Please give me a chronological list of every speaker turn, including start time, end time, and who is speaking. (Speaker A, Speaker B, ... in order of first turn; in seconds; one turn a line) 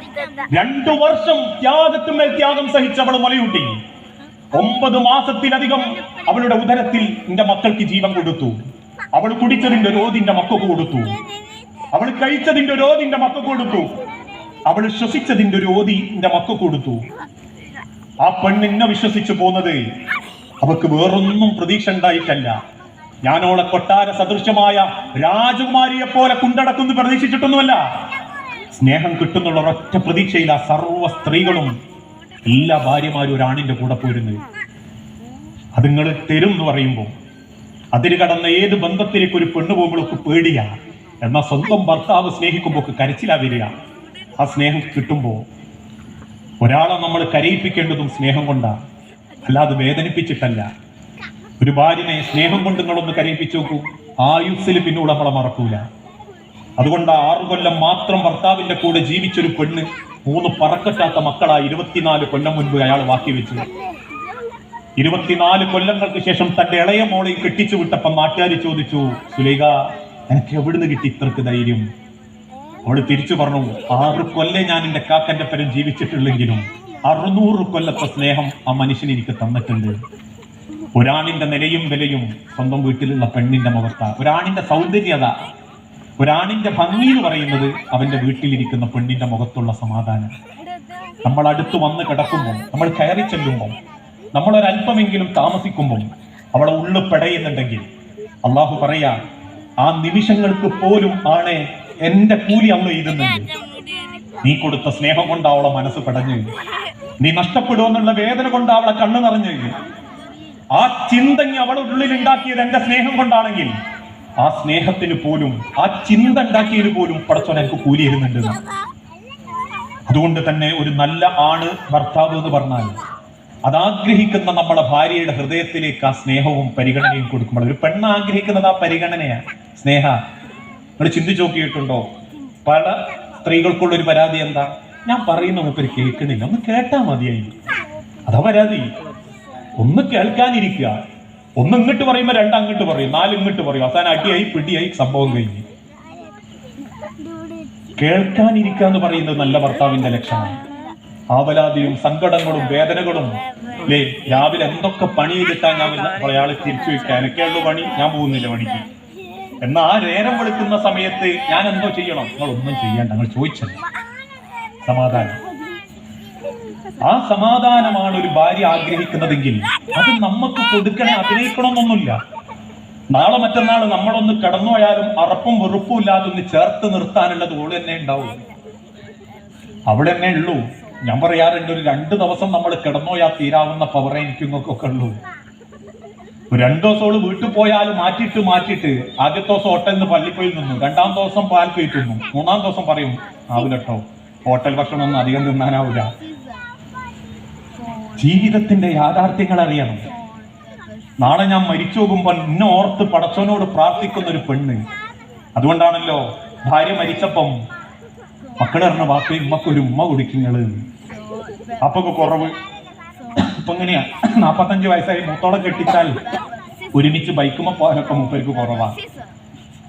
Speaker A: 0.5-3.8
Speaker A: 4.5-8.6
Speaker A: 9.1-11.2
Speaker A: 11.9-13.9
Speaker A: 14.7-17.0
Speaker A: 18.2-19.8
Speaker A: 20.6-22.5
Speaker A: 23.2-27.8
Speaker A: 28.7-31.7
Speaker A: 32.5-34.4
Speaker A: 35.8-37.1
Speaker A: 37.9-40.7
Speaker A: 41.2-43.7
Speaker A: 44.4-45.4
Speaker A: 46.6-48.7
Speaker A: 49.4-50.6
Speaker A: 51.6-55.8
Speaker A: 56.8-63.6
Speaker A: 65.0-69.7
Speaker A: 70.3-71.8
Speaker A: 72.8-80.0
Speaker A: 81.0-85.3
Speaker A: 86.2-90.3
Speaker A: 91.2-93.8
Speaker A: 94.3-97.8
Speaker A: 98.4-99.2
Speaker A: 99.8-103.5
Speaker A: 104.4-106.5
Speaker A: 107.2-109.7
Speaker A: 110.8-113.7
Speaker A: 114.4-118.6
Speaker A: 120.1-123.0
Speaker A: 123.7-130.2
Speaker A: 131.0-132.1
Speaker A: 132.6-137.5
Speaker A: 138.2-138.9
Speaker A: 139.8-140.9
Speaker A: 141.6-145.6
Speaker A: 148.0-150.6
Speaker A: 151.3-158.8
Speaker A: 159.6-163.8
Speaker A: 164.8-165.4
Speaker A: 167.0-172.2
Speaker A: 173.1-178.4
Speaker A: 179.9-185.1
Speaker A: 186.5-196.1
Speaker A: 198.2-200.1
Speaker A: 201.2-204.8
Speaker A: 205.6-207.5
Speaker A: 208.6-210.8
Speaker A: 211.8-212.5
Speaker A: 213.4-216.2
Speaker A: 216.9-219.0